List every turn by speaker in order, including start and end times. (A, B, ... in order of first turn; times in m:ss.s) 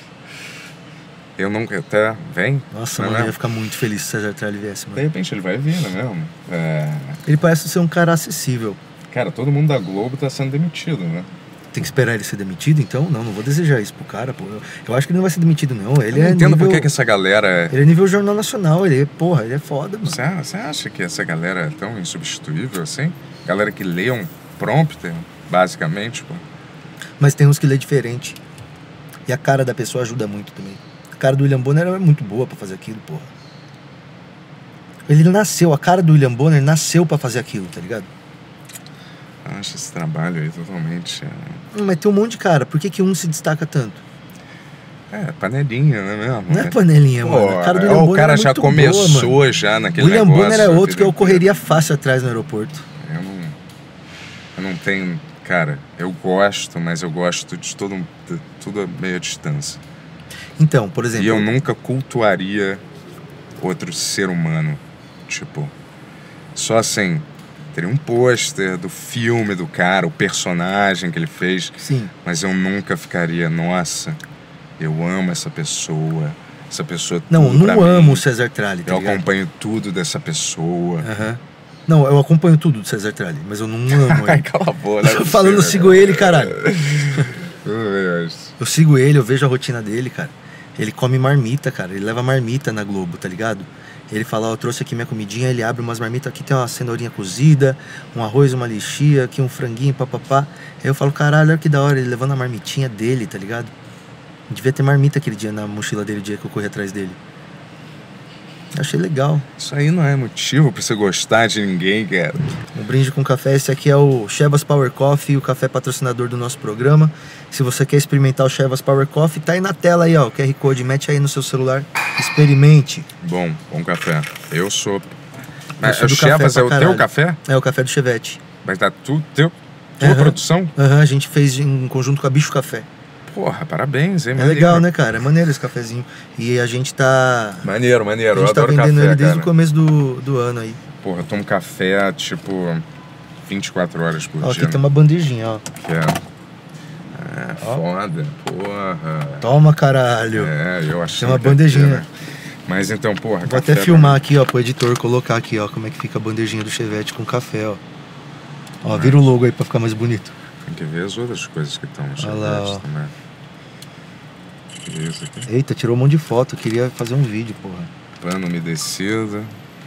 0:01.4-0:03.4 A
0:02.7-0:05.0 B
0:05.0-0:07.2 A
0:07.2-0:08.8 B
0:09.1-0:11.3 A
0:11.7-0:16.9 B
0:16.1-0:17.7 A
0:17.7-0:20.2 B
0:20.0-0:26.4 A
0:27.2-0:28.4 B
0:29.3-0:33.3 B
0:35.1-0:38.1 B
0:39.4-0:41.6 A
0:41.7-0:44.0 B
0:45.1-0:51.4 A
0:46.5-0:49.4 B
0:50.0-0:52.8 B
0:53.0-0:53.6 A
0:54.5-0:59.8 A
1:00.6-1:01.5 B
1:01.1-1:02.8 A
1:03.6-1:05.7 A
1:06.5-1:14.2 A
1:11.8-1:12.1 B
1:14.8-1:18.2 A
1:17.3-1:19.2 B
1:18.8-1:21.1 A
1:21.0-1:24.4 B
1:23.9-1:28.5 A
1:25.0-1:26.6 B
1:28.6-1:43.7 B
1:44.5-1:47.2 B
1:48.7-1:49.4 B
1:49.6-1:52.6 A
1:52.7-2:03.1 B
2:03.2-2:05.2 A
2:05.8-2:07.4 A
2:05.8-2:08.4 B
2:08.6-2:10.7 A
2:10.0-2:12.9 B
2:13.3-2:14.9 A
2:14.4-2:17.7 B
2:17.6-2:19.5 A
2:18.3-2:20.8 B
2:21.0-2:22.8 A
2:23.4-2:24.8 A
2:24.4-2:25.6 B
2:25.7-2:26.2 A
2:27.1-2:29.5 A
2:29.4-2:30.5 B
2:30.3-2:32.1 A
2:31.2-2:32.0 B
2:32.6-2:34.2 A
2:33.4-2:37.8 B
2:38.8-2:40.3 B
2:38.9-2:39.2 A
2:40.6-2:43.1 A
2:42.2-2:42.8 B
2:44.8-2:45.5 A
2:45.5-2:47.9 B
2:48.2-2:49.5 A